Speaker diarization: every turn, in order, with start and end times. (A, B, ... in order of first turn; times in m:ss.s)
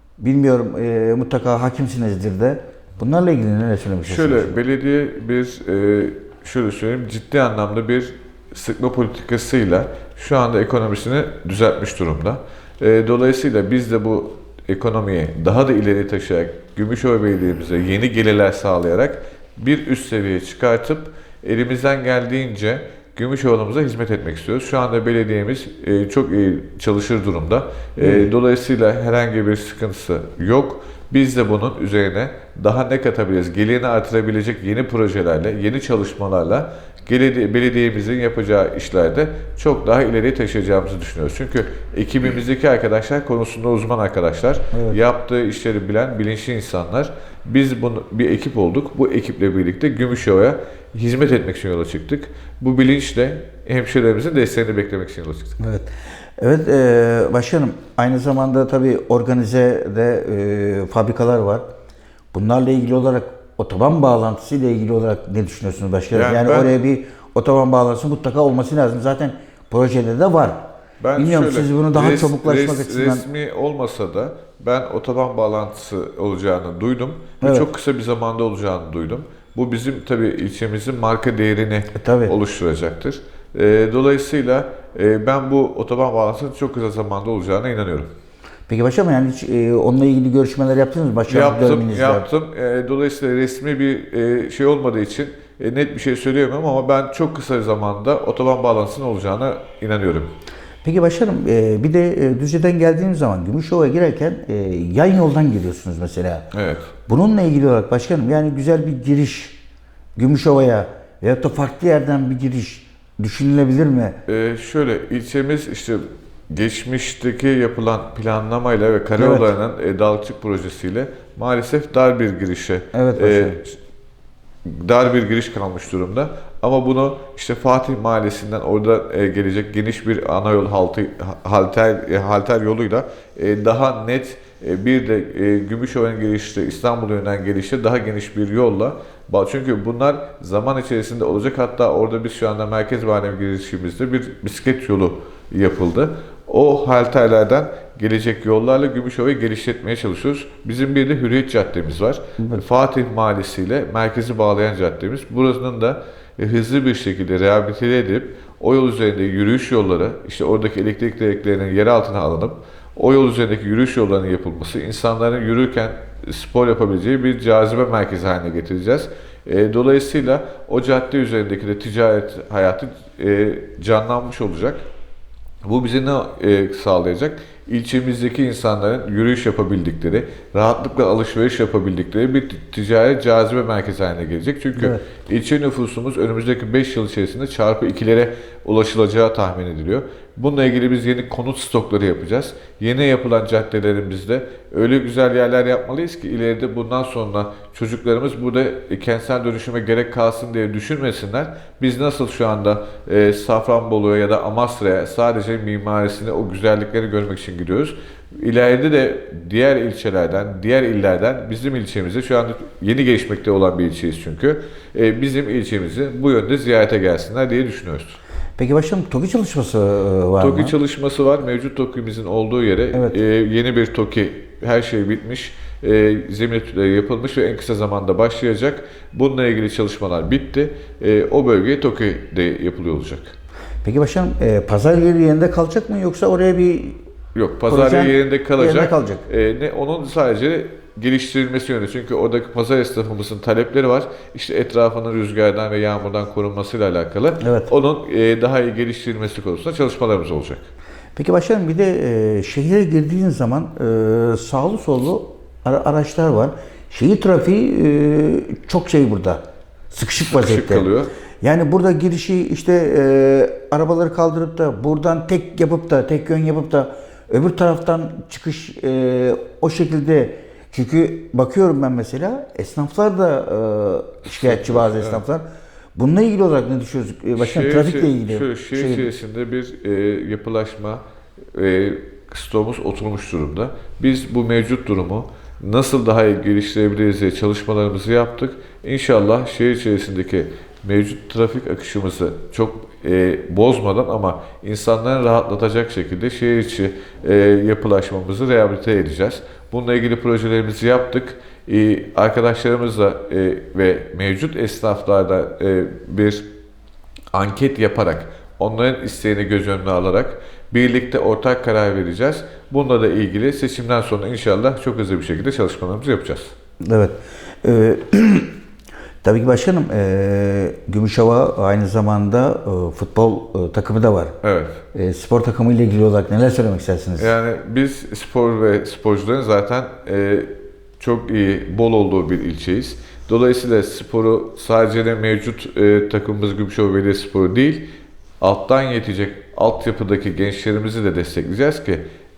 0:00.2-0:04.6 A
0:04.1-0:55.6 B
0:28.0-0:28.3 A
0:44.7-0:45.0 A
0:55.6-1:01.7 A
1:02.3-1:13.2 A
1:06.1-1:06.7 B
1:11.0-1:28.1 B
1:17.4-1:17.7 A
1:22.0-1:22.3 A
1:28.7-1:32.3 A
1:31.3-1:40.3 B
1:40.8-1:46.5 A
1:46.5-1:46.9 B
1:47.1-1:49.6 A
1:50.2-1:54.2 A
1:54.3-2:03.8 B
1:59.2-1:59.5 A
2:02.9-2:03.6 A
2:04.6-2:54.9 B
2:32.4-2:32.6 A
2:55.6-3:38.2 B
3:04.8-3:05.0 A
3:38.6-3:40.8 A
3:40.4-3:53.4 B
3:42.9-3:43.2 A
3:53.8-3:57.0 A
3:57.4-4:10.7 B
3:57.7-3:59.3 A
4:07.4-4:07.7 A
4:11.2-4:20.9 A
4:20.2-4:21.1 B
4:21.4-4:35.4 A
4:34.3-4:35.2 B
4:36.0-4:39.1 A
4:37.4-4:41.0 B
4:41.5-5:06.5 B
5:07.3-5:16.5 B
5:16.8-5:18.5 A
5:19.2-5:24.4 A
5:24.4-5:24.8 B
5:24.9-5:27.3 A
5:27.2-5:37.9 B
5:38.4-5:42.0 B